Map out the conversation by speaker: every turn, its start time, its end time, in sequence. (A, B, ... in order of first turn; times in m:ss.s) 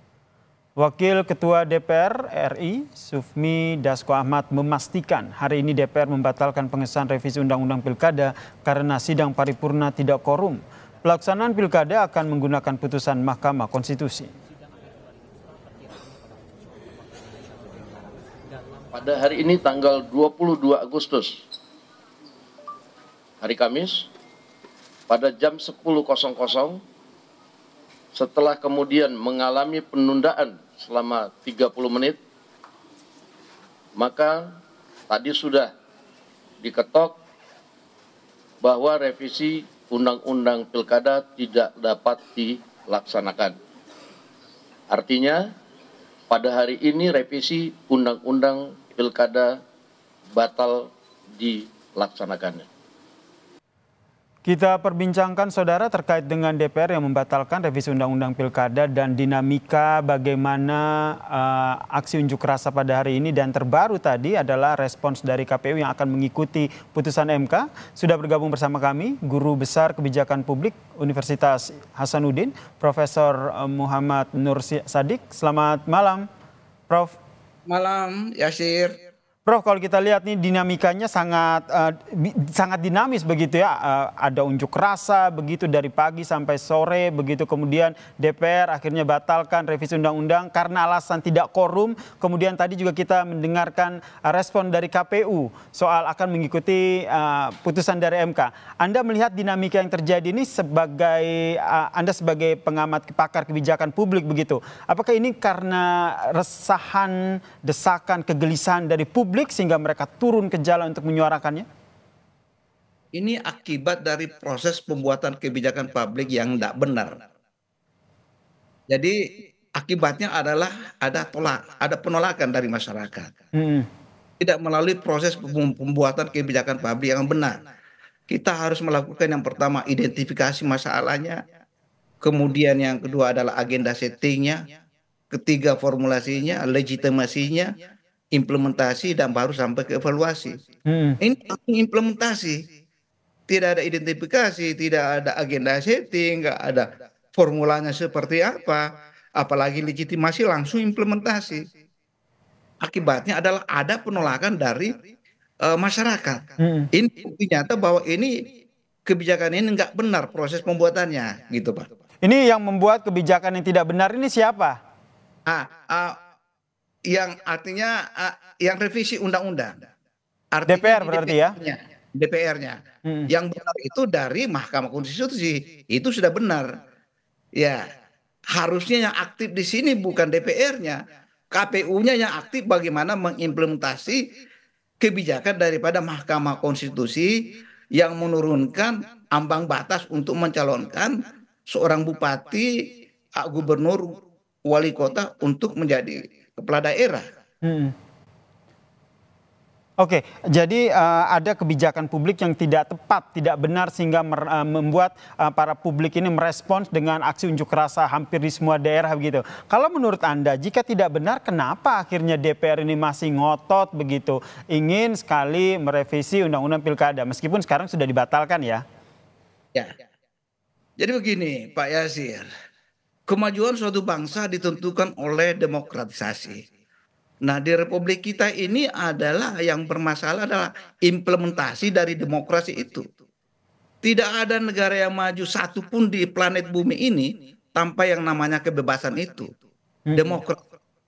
0:00.8-0:14.3 A
0:18.9-0:21.4 B
0:23.4-0:24.1 B
0:25.1-0:26.8 B
0:28.1-0:32.2 B
0:34.0-0:34.5 B
0:35.1-0:35.7 B
0:36.6-0:37.2 B
0:38.6-0:43.6 B
0:44.9-0:45.4 B
0:46.3-0:49.6 B
0:50.3-0:52.7 B
0:54.4-1:16.3 A
1:16.9-1:17.2 A
1:17.7-1:18.9 C
1:19.4-1:51.6 A
1:53.1-1:57.2 C
1:58.9-1:59.2 C
1:59.8-2:03.3 C
2:03.5-2:03.9 A
2:04.4-2:07.6 C
2:08.3-2:11.4 C
2:12.2-2:14.6 C
2:15.3-2:17.7 C
2:18.3-2:20.6 C
2:20.8-2:21.2 A
2:21.2-2:22.6 C
2:23.5-2:28.8 C
2:29.4-2:31.6 C
2:32.8-2:35.0 C
2:35.6-2:36.4 C
2:36.6-2:36.9 A
2:36.9-2:38.4 C
2:39.1-2:41.9 C
2:42.2-2:44.8 A
2:45.5-2:46.1 C
2:47.1-2:49.8 C
2:50.5-2:56.7 C
2:50.7-2:51.5 A
2:53.0-2:53.3 A
2:58.5-3:01.0 C
3:01.5-3:04.2 C
3:05.0-3:07.3 C
3:08.0-3:12.7 C
3:13.4-3:17.2 C
3:17.6-3:17.9 A
3:20.0-3:38.8 A
3:41.0-3:42.5 C
3:43.3-3:46.6 C
3:47.4-3:53.0 C
3:54.0-3:59.5 C
4:00.1-4:00.4 A
4:00.2-4:00.6 C